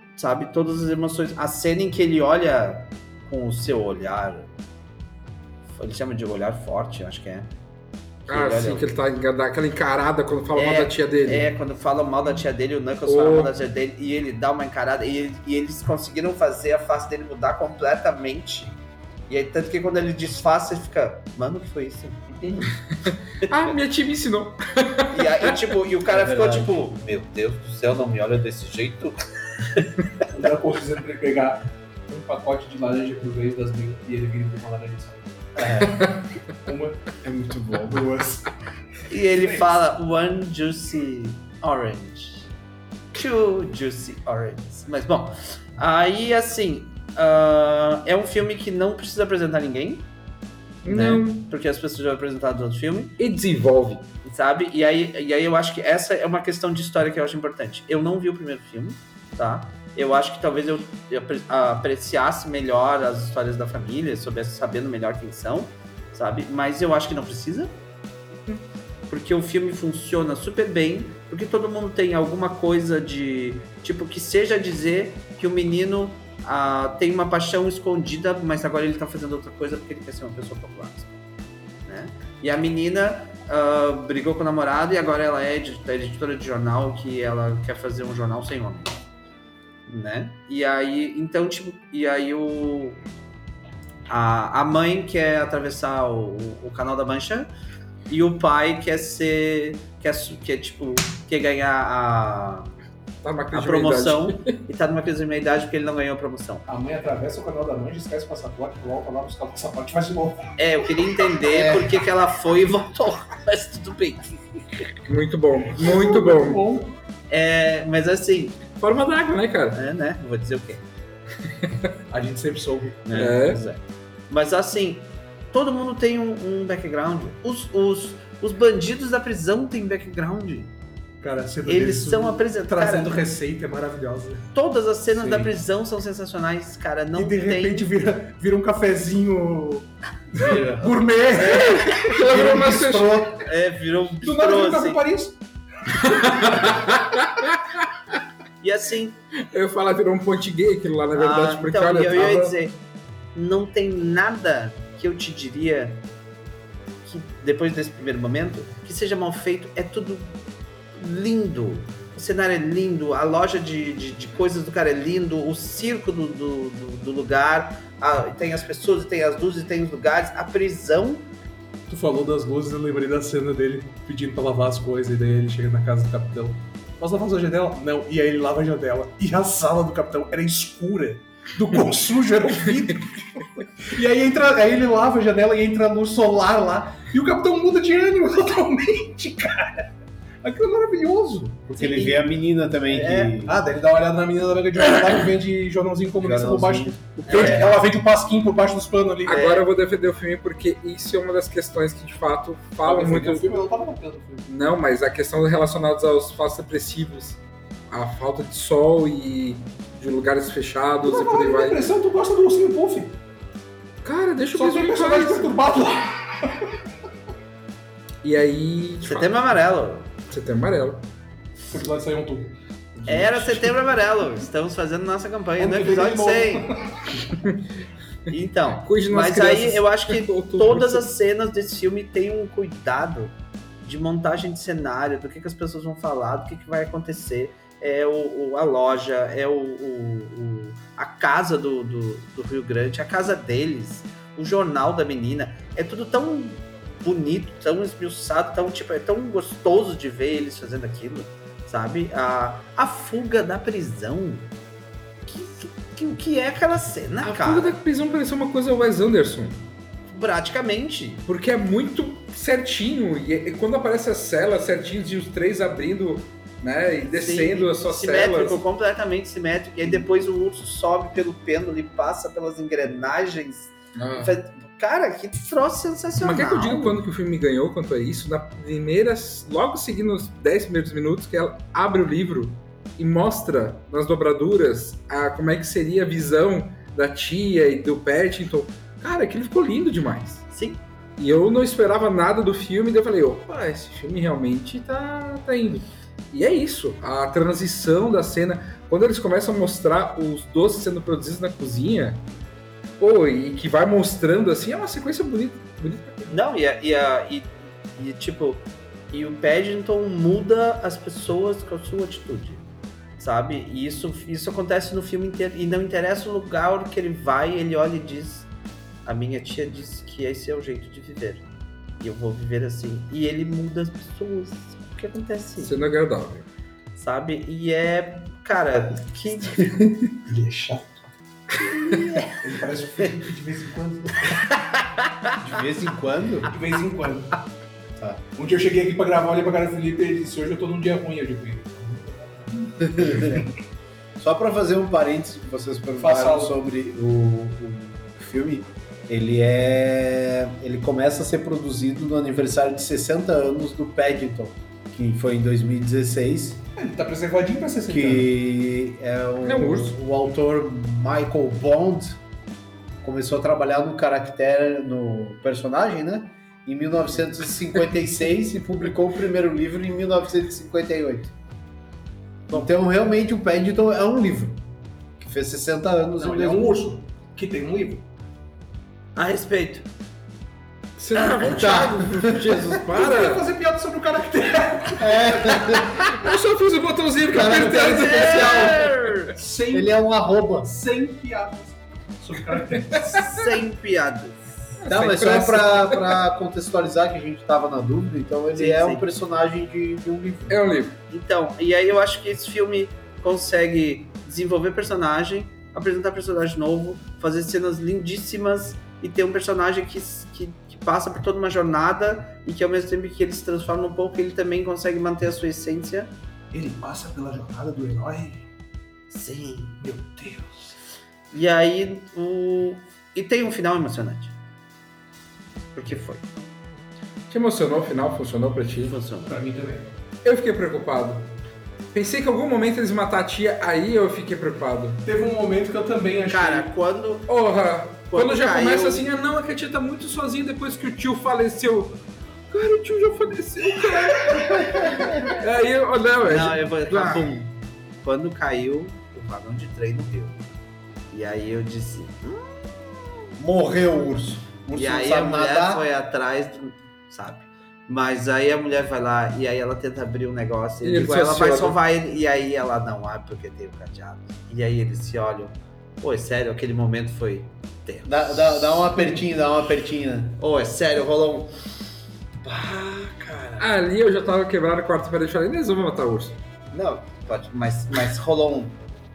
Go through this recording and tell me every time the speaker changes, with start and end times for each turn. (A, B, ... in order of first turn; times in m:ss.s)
0:00.2-0:04.5 A
0:05.7-0:07.5 A
0:08.3-0:08.9 A
0:08.3-0:11.5 B
0:10.5-0:18.8 A
0:13.0-0:13.5 B
0:19.3-0:22.6 A
0:23.4-0:25.4 B
0:23.5-0:23.7 A
0:25.1-0:29.2 A
0:26.1-0:26.7 C
0:30.3-0:35.5 D
0:35.6-0:36.1 C
0:35.9-0:36.2 B
0:36.6-0:38.5 D
0:37.3-0:37.9 C
0:39.1-0:42.5 A
0:39.4-0:39.7 D
0:43.1-0:50.1 A
0:50.8-0:51.5 B
0:50.8-0:53.2 A
0:53.2-0:54.1 B
0:54.2-1:07.7 A
1:09.1-1:21.1 A
1:21.8-1:29.0 A
1:29.9-1:33.0 A
1:34.1-1:37.5 A
1:38.1-1:42.7 A
1:43.2-1:44.6 B
1:43.5-1:46.6 A
1:46.7-1:50.4 D
1:50.6-1:54.4 A
1:51.4-1:52.0 C
1:55.1-1:56.6 B
1:55.7-1:56.9 D
1:57.3-1:58.6 A
1:58.8-1:59.8 B
1:59.7-2:00.8 A
2:02.1-2:03.0 D
2:03.0-2:10.7 A
2:03.1-2:03.6 B
2:11.2-2:14.5 D
2:11.6-2:13.2 A
2:14.5-2:17.9 A
2:15.1-2:15.5 D
2:17.1-2:22.6 D
2:21.4-2:21.9 A
2:21.4-2:23.2 B
2:22.2-2:23.4 C
2:23.4-2:25.0 A
2:24.2-2:25.4 D
2:26.2-2:26.7 D
2:26.2-2:27.5 B
2:28.6-2:29.2 A
2:29.5-2:32.5 B
2:31.1-2:32.8 A
2:33.3-2:36.0 A
2:37.0-2:40.4 A
2:40.9-2:51.3 A
2:51.9-3:09.9 D
3:10.4-3:11.8 D
3:11.7-3:13.6 C
3:11.8-3:12.2 A
3:12.9-3:13.4 A
3:13.4-3:19.6 D
3:16.2-3:17.7 C
3:17.2-3:17.8 A
3:19.2-3:23.5 B
3:19.3-3:19.6 A
3:22.8-3:24.5 D
3:24.5-3:31.9 B
3:31.0-3:33.2 D
3:34.0-3:35.5 B
3:34.5-3:36.7 D
3:38.2-3:39.3 B
3:39.0-3:40.1 A
3:40.3-3:41.0 B
3:41.7-3:42.5 D
3:43.1-3:46.7 A
3:43.1-3:43.7 B
3:45.6-3:47.1 D
3:48.3-4:14.5 A
3:48.8-3:51.1 B
4:15.2-4:17.8 A
4:17.2-4:19.6 B
4:20.1-4:21.2 A
4:21.3-4:28.6 B
4:27.0-4:37.0 A
4:34.0-4:34.3 B
4:36.2-4:50.4 B
4:50.5-4:50.8 A
4:51.2-5:02.2 B
5:03.0-5:06.4 B
5:06.3-5:12.6 A
5:13.2-5:18.5 A
5:19.0-5:21.4 A
5:22.0-5:25.7 A
5:25.6-5:26.4 B
5:27.0-5:29.8 A
5:30.2-5:31.1 D
5:31.8-5:32.4 A
5:32.4-5:34.4 D
5:35.4-5:36.5 C
5:36.4-5:37.4 D
5:38.4-5:43.4 D
5:42.8-5:43.5 C
5:44.2-5:56.6 C
5:46.0-5:46.5 D
5:56.8-5:58.3 D
5:57.9-6:02.2 C
5:59.4-5:59.9 B
6:03.0-6:11.3 C
6:12.5-6:14.6 C
6:15.2-6:16.8 C
6:16.2-6:18.0 D
6:19.2-6:19.9 A
6:21.0-6:23.4 B
6:21.1-6:21.8 A
6:21.4-6:22.8 C
6:22.9-6:25.6 D
6:25.0-6:26.1 C
6:26.0-6:29.1 B
6:27.3-6:28.6 C
6:27.4-6:28.7 D
6:27.9-6:29.3 A
6:29.3-6:30.0 D
6:29.7-6:30.7 C
6:30.6-6:33.3 D
6:33.0-6:34.4 A
6:34.8-6:36.1 B
6:34.8-6:40.6 C
6:38.5-6:39.0 A
6:40.5-6:41.0 B
6:41.1-6:56.1 A
6:56.5-6:58.4 D
6:59.1-6:59.8 A
6:59.8-7:00.7 D
7:01.3-7:04.3 A
7:05.8-7:06.2 A
7:07.3-7:08.9 B
7:08.8-7:09.4 A
7:09.2-7:09.9 D
7:10.2-7:11.3 B
7:11.9-7:15.0 B
7:15.0-7:16.7 D
7:16.3-7:17.3 A
7:17.3-7:27.3 B
7:18.1-7:19.1 A
7:24.5-7:25.4 C
7:26.2-7:27.5 A
7:28.0-7:30.4 A
7:31.1-7:33.1 A
7:33.4-7:35.8 C
7:34.7-7:49.0 A
7:40.8-7:41.8 B
7:48.0-7:50.4 C
7:50.4-7:51.5 A
7:52.4-7:53.8 A
7:53.6-7:56.4 B
7:56.7-7:58.8 A